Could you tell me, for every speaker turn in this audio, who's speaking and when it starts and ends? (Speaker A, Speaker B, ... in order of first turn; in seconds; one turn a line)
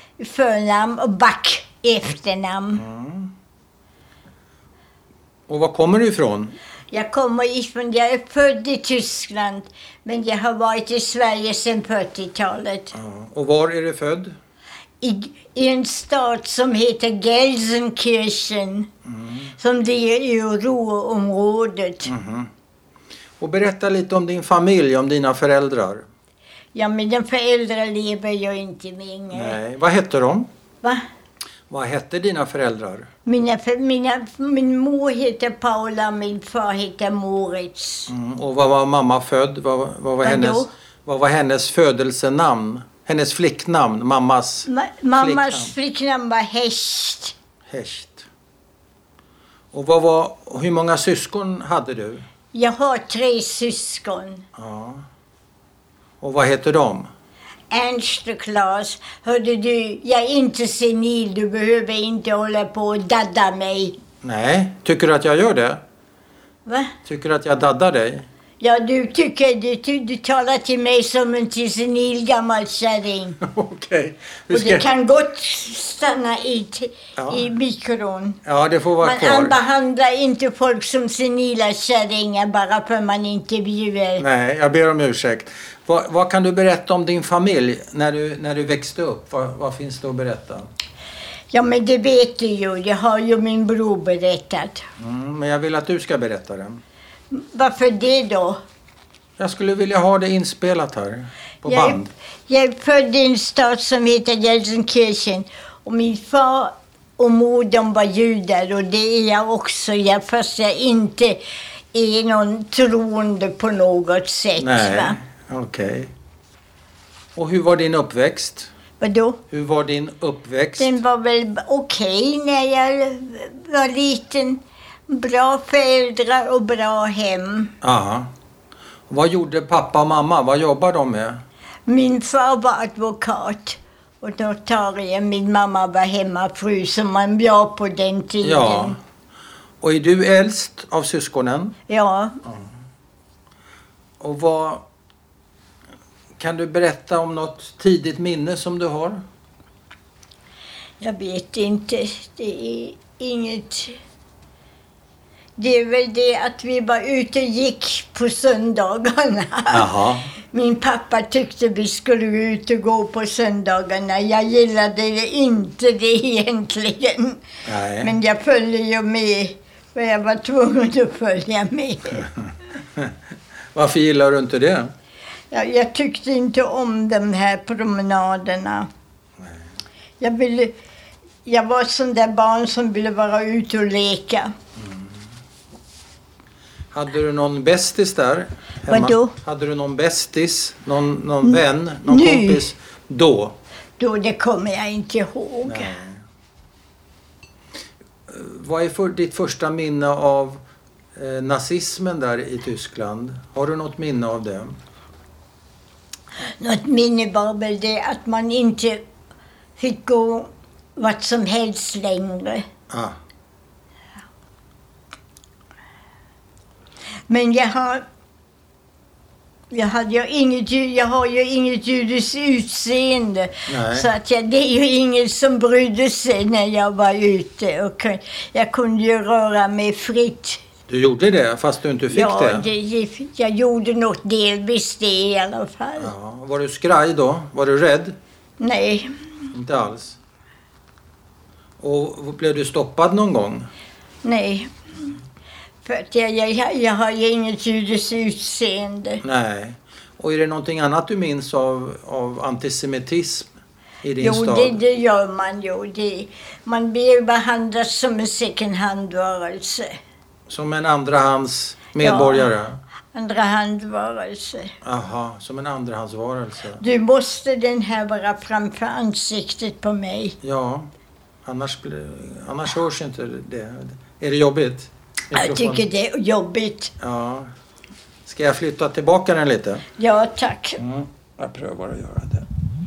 Speaker A: 0.2-2.8
Speaker B: 2.8-3.3
Speaker B: 5.5-6.5
Speaker A: 6.9-12.9
Speaker B: 12.9-14.3
Speaker A: 15.0-18.9
Speaker B: 19.1-19.5
Speaker A: 19.6-22.1
Speaker B: 22.0-22.5
Speaker B: 23.4-26.1
Speaker A: 26.7-29.6
Speaker B: 29.3-30.5
Speaker B: 31.7-33.1
Speaker A: 33.2-38.1
Speaker B: 38.1-45.7
Speaker A: 40.2-40.7
Speaker A: 44.7-47.3
Speaker B: 47.7-48.2
Speaker B: 49.7-52.2
Speaker A: 52.5-54.4
Speaker B: 54.5-55.0
Speaker B: 56.2-57.1
Speaker A: 57.7-64.0
Speaker B: 64.2-65.8
Speaker A: 66.7-66.9
Speaker B: 67.0-68.3
Speaker A: 68.6-73.4
Speaker B: 73.4-74.8
Speaker A: 74.5-78.4
Speaker B: 77.2-77.5
Speaker B: 78.4-79.6
Speaker A: 79.0-84.2
Speaker B: 84.2-90.7
Speaker A: 91.5-94.8
Speaker B: 95.0-96.8
Speaker A: 97.3-98.6
Speaker B: 99.4-102.1
Speaker A: 101.7-111.4
Speaker A: 111.9-115.2
Speaker B: 114.6-116.1
Speaker B: 117.3-118.7
Speaker A: 119.0-119.4
Speaker B: 119.5-121.0
Speaker A: 120.8-127.7
Speaker B: 127.8-128.3
Speaker B: 129.1-131.4
Speaker A: 131.8-138.9
Speaker B: 138.4-139.0
Speaker B: 139.8-141.7
Speaker A: 141.9-142.3
Speaker B: 144.2-144.8
Speaker B: 146.4-149.2
Speaker A: 151.0-153.9
Speaker A: 155.6-159.9
Speaker B: 159.7-160.3
Speaker A: 160.5-167.4
Speaker B: 167.6-168.1
Speaker A: 168.0-172.3
Speaker B: 173.7-174.9
Speaker A: 175.5-178.9
Speaker A: 180.2-180.7
Speaker A: 181.4-184.5
Speaker B: 184.8-185.1
Speaker B: 186.9-193.5
Speaker A: 188.9-189.3
Speaker A: 191.4-192.7
Speaker A: 194.0-195.9
Speaker B: 195.7-196.2
Speaker B: 198.3-200.6
Speaker B: 201.2-204.8
Speaker A: 206.6-209.0
Speaker A: 209.8-212.6
Speaker B: 212.9-213.2
Speaker A: 217.3-218.0
Speaker A: 219.7-230.6
Speaker B: 223.7-224.1
Speaker B: 230.9-232.7
Speaker A: 232.1-236.1
Speaker B: 236.0-238.2
Speaker A: 238.6-239.1
Speaker B: 239.5-240.2
Speaker B: 241.8-243.7
Speaker A: 244.2-245.2
Speaker A: 245.8-249.2
Speaker B: 249.2-253.5
Speaker B: 254.0-254.8
Speaker A: 254.2-259.9
Speaker B: 260.5-262.8
Speaker A: 262.0-262.5
Speaker A: 263.1-264.7
Speaker B: 264.8-266.8
Speaker A: 266.8-270.4
Speaker B: 270.4-270.9
Speaker B: 271.4-275.8
Speaker A: 275.3-276.9
Speaker B: 277.0-277.5
Speaker B: 278.2-279.9
Speaker A: 280.0-280.8
Speaker B: 280.8-282.5